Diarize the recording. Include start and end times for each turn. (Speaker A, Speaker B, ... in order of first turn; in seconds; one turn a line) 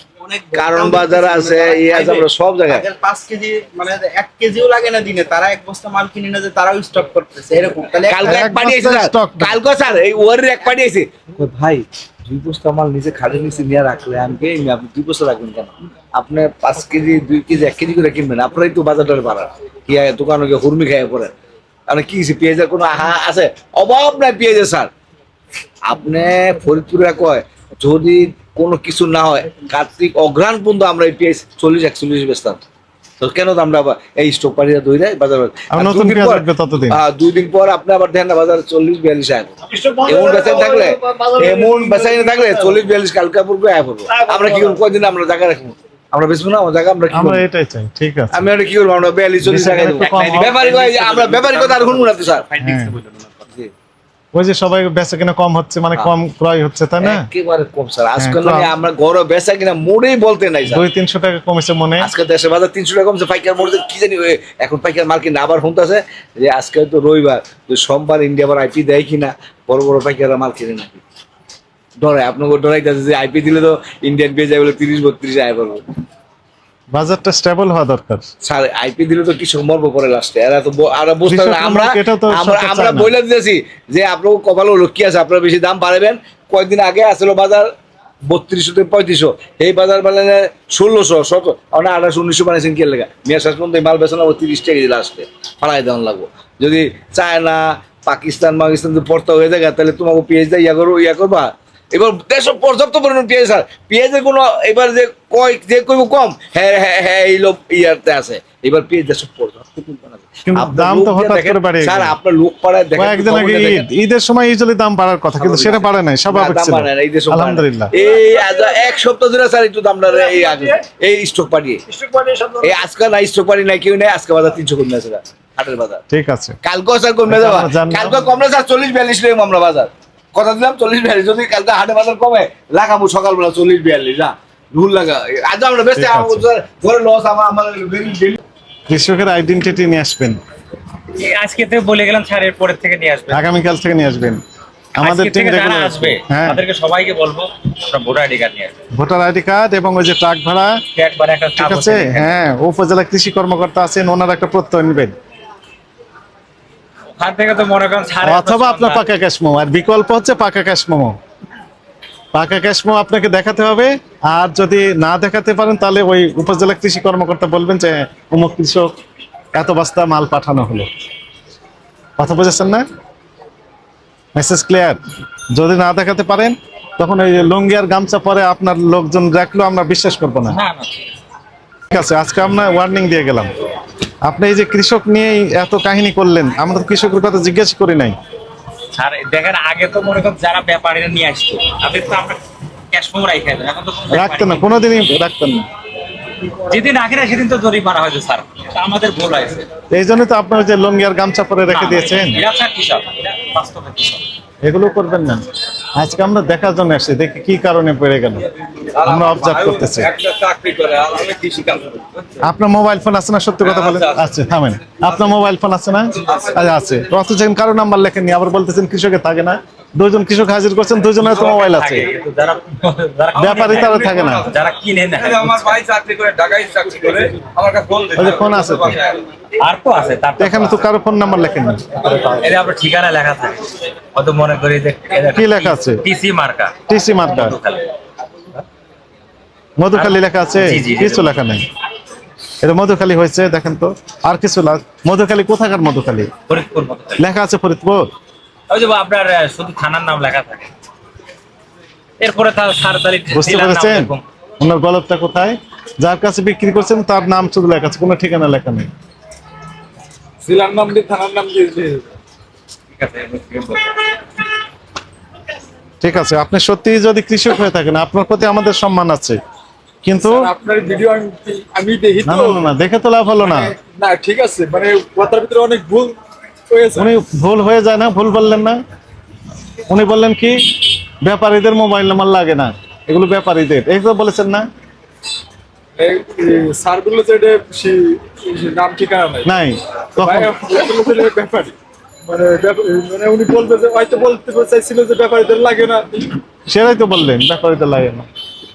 Speaker A: 0.2-8.4
Speaker B: 0.5-2.9
Speaker B: 8.1-21.3
Speaker C: 8.2-9.6
Speaker B: 21.9-24.9
Speaker B: 25.9-32.6
Speaker B: 33.2-39.5
Speaker C: 35.7-37.0
Speaker A: 39.7-42.6
Speaker B: 40.0-47.4
Speaker A: 44.2-44.5
Speaker C: 47.1-48.5
Speaker B: 48.3-52.5
Speaker C: 49.4-50.6
Speaker D: 50.3-53.4
Speaker C: 52.6-53.0
Speaker C: 54.3-57.3
Speaker B: 57.0-60.9
Speaker C: 58.2-58.7
Speaker C: 60.7-62.1
Speaker B: 62.0-71.0
Speaker B: 72.0-75.8
Speaker C: 76.9-78.2
Speaker B: 78.4-87.7
Speaker C: 81.3-83.1
Speaker B: 88.3-113.8
Speaker C: 110.5-112.2
Speaker C: 113.0-117.9
Speaker B: 115.4-121.8
Speaker A: 121.9-122.6
Speaker B: 122.6-126.0
Speaker C: 126.1-126.6
Speaker B: 126.6-138.4
Speaker C: 127.3-128.2
Speaker C: 135.9-136.5
Speaker C: 138.9-140.4
Speaker D: 141.1-143.4
Speaker C: 143.3-144.4
Speaker C: 145.0-146.6
Speaker D: 145.0-148.7
Speaker C: 148.9-150.8
Speaker D: 150.9-152.3
Speaker C: 151.6-155.1
Speaker D: 157.2-159.1
Speaker C: 158.2-161.2
Speaker C: 162.3-168.9
Speaker C: 169.5-170.9
Speaker C: 172.2-172.9
Speaker C: 174.3-175.0
Speaker C: 175.5-180.6
Speaker D: 180.5-181.0
Speaker C: 181.9-183.5
Speaker C: 184.2-188.2
Speaker D: 188.9-195.1
Speaker C: 194.1-195.7
Speaker D: 196.5-199.7
Speaker C: 199.9-202.4
Speaker D: 201.7-204.2
Speaker C: 204.6-208.5
Speaker B: 208.9-212.1
Speaker C: 209.0-210.1
Speaker C: 212.4-222.1
Speaker D: 213.6-214.3
Speaker D: 221.1-225.8
Speaker C: 223.3-224.5
Speaker B: 225.2-228.9
Speaker C: 228.2-229.0
Speaker D: 229.6-230.8
Speaker C: 230.4-231.9
Speaker D: 231.9-237.9
Speaker C: 235.3-236.0
Speaker C: 236.9-237.6
Speaker C: 239.8-241.6
Speaker D: 239.9-241.3
Speaker C: 242.6-246.3
Speaker D: 246.5-247.2
Speaker C: 247.2-248.1
Speaker D: 248.7-250.7
Speaker D: 252.2-254.2
Speaker C: 253.3-258.9
Speaker E: 260.4-262.1
Speaker D: 262.9-264.2
Speaker C: 266.0-269.4
Speaker C: 270.0-270.5
Speaker E: 270.2-272.7
Speaker C: 272.2-273.7
Speaker E: 273.8-276.2
Speaker E: 276.7-277.1
Speaker C: 277.0-278.8
Speaker C: 279.9-284.7
Speaker E: 286.0-289.5
Speaker C: 289.4-290.5
Speaker E: 290.2-296.4
Speaker C: 296.7-298.3